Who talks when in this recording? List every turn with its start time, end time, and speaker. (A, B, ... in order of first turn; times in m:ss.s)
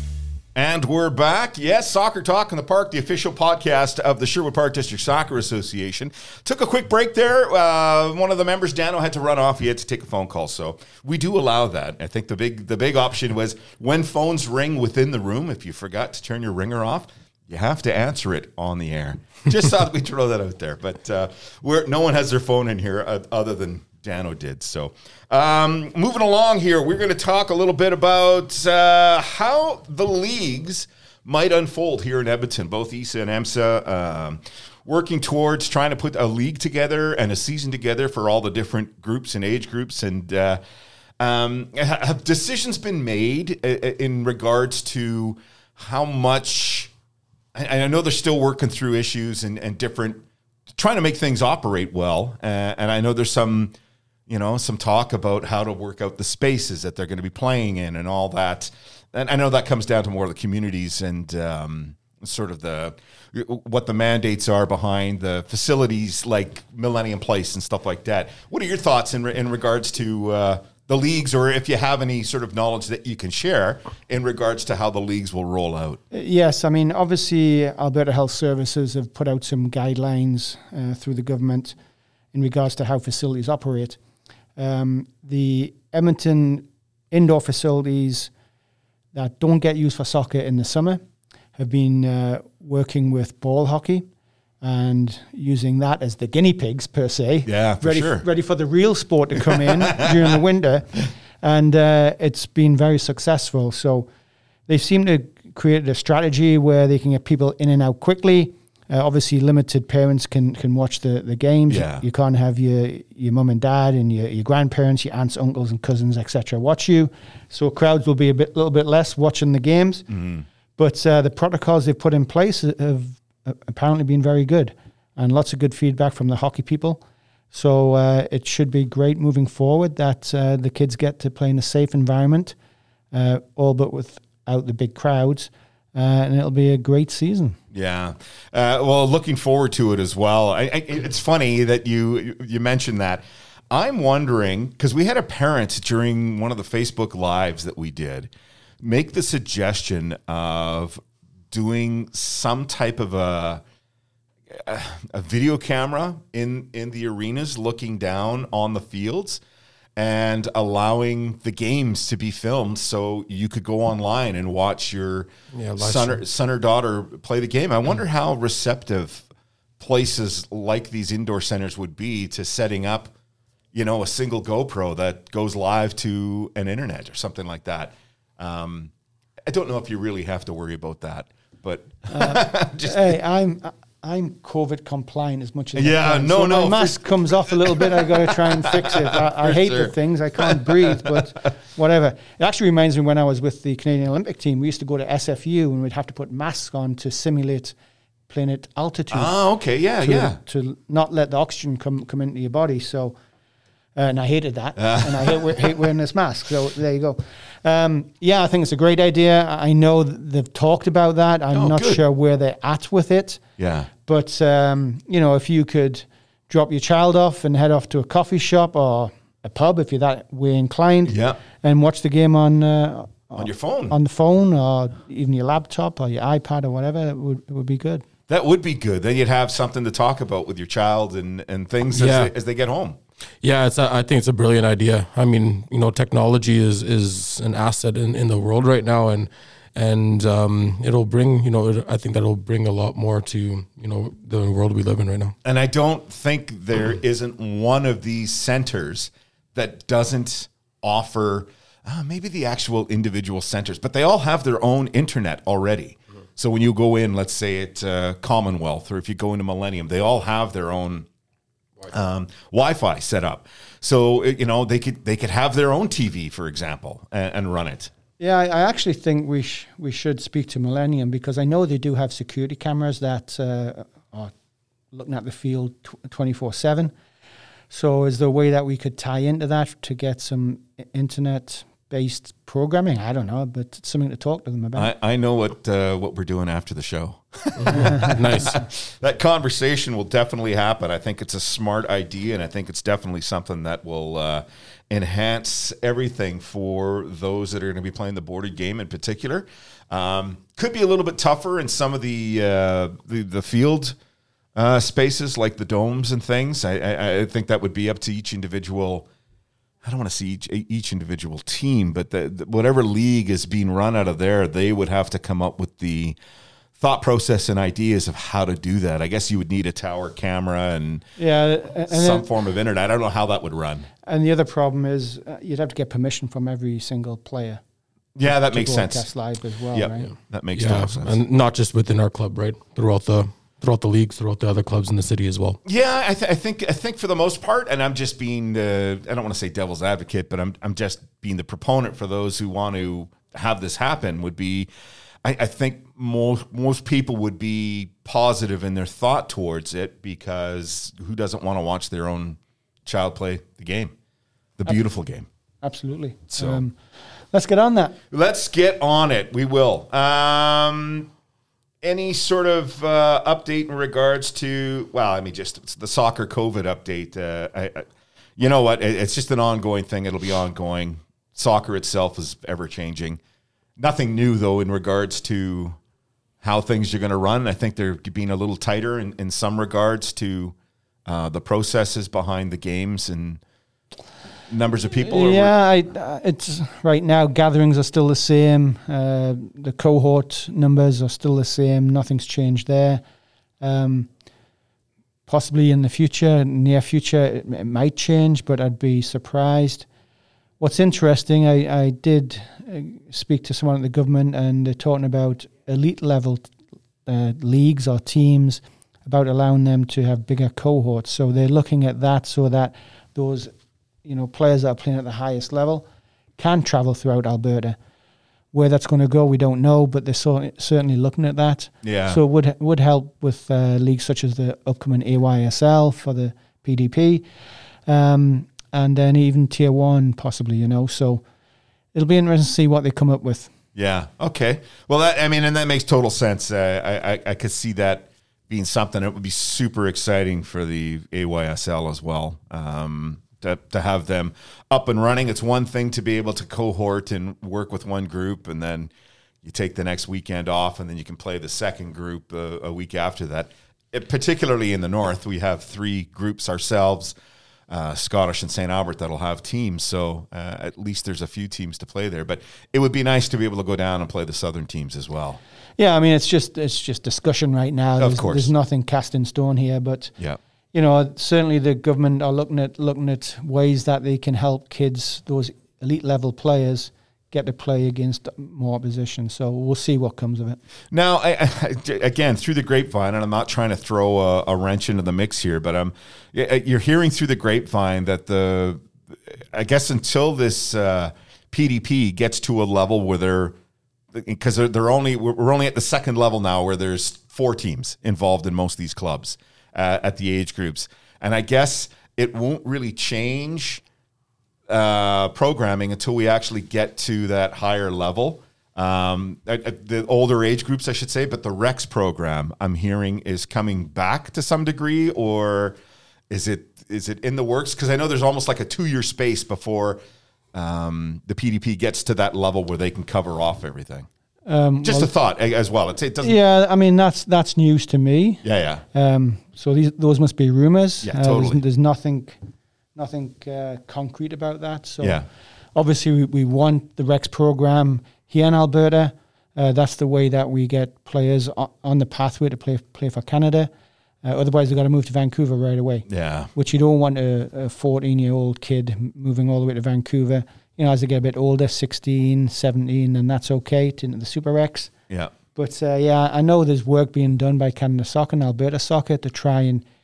0:00.6-0:40.6 A
0:41.2-0:46.9 A
0:47.6-0:53.8 A
0:54.3-1:16.0 A
1:16.1-1:21.8 B
1:22.3-1:24.0 B
1:24.6-1:28.3 B
1:29.1-1:31.0 B
1:31.6-1:34.1 B
1:34.6-1:44.1 B
1:37.5-1:38.2 A
1:39.6-1:40.1 A
1:44.7-2:00.1 B
1:51.7-1:52.0 A
2:00.1-2:00.4 A
2:00.8-2:12.6 B
2:13.1-2:17.6 B
2:17.7-2:33.6 A
2:34.5-2:39.4 A
2:40.0-2:49.3 A
2:45.5-2:46.2 C
2:49.8-2:53.1 A
2:53.7-2:58.9 A
2:59.5-3:03.2 A
3:02.1-3:17.8 B
3:05.8-3:11.3 A
3:18.3-3:19.4 B
3:19.1-3:20.4 A
3:20.0-3:23.2 B
3:24.0-3:33.4 B
3:24.8-3:25.4 A
3:31.5-3:32.0 A
3:33.6-3:33.9 A
3:34.0-3:48.0 B
3:41.0-3:41.4 A
3:43.4-3:44.0 A
3:48.3-3:53.0 A
3:51.9-3:52.3 C
3:53.4-4:05.4 C
4:05.4-4:21.1 A
4:21.9-4:27.9 A
4:28.2-4:34.3 B
4:34.9-4:36.9 B
4:37.7-4:44.9 B
4:44.8-5:04.0 A
4:47.6-4:48.6 C
5:04.6-5:09.1 A
5:09.8-5:16.2 A
5:16.8-5:21.0 A
5:21.2-5:22.3 B
5:21.9-5:23.9 A
5:24.0-5:27.6 B
5:28.2-5:29.1 A
5:28.2-5:30.1 B
5:29.7-5:31.2 A
5:30.5-5:35.6 C
5:35.6-5:44.7 A
5:45.2-5:54.0 A
5:54.6-5:55.3 A
5:55.6-5:56.8 B
5:56.4-5:56.6 A
5:57.3-5:58.0 B
5:58.1-6:01.1 A
6:01.8-6:07.8 A
6:08.4-6:13.2 A
6:13.8-6:15.8 A
6:16.4-6:20.6 A
6:21.1-6:23.4 A
6:24.5-6:25.6 A
6:25.0-6:33.0 B
6:33.6-6:34.1 B
6:35.3-6:39.9 B
6:40.6-6:46.5 B
6:47.1-6:53.5 B
6:54.0-6:55.8 B
6:56.4-6:57.8 B
6:58.5-7:07.2 B
7:01.8-7:02.2 A
7:07.9-7:11.2 B
7:11.9-7:13.5 B
7:13.8-7:28.9 A
7:29.4-7:37.2 A
7:37.7-7:45.4 A
7:45.8-7:50.1 B
7:48.0-7:48.5 A
7:50.7-8:00.6 B
8:00.9-8:13.6 A
8:14.1-8:23.8 A
8:24.7-8:35.8 A
8:36.3-8:40.0 A
8:40.5-8:44.1 A
8:44.5-8:45.1 B
8:44.8-8:46.4 A
8:46.2-8:52.4 B
8:48.4-8:48.8 A
8:51.0-8:51.6 A
8:53.0-8:55.2 B
8:55.0-8:55.3 A
8:55.8-9:03.7 B
9:04.2-9:14.9 B
9:06.1-9:06.5 A
9:15.6-9:19.8 B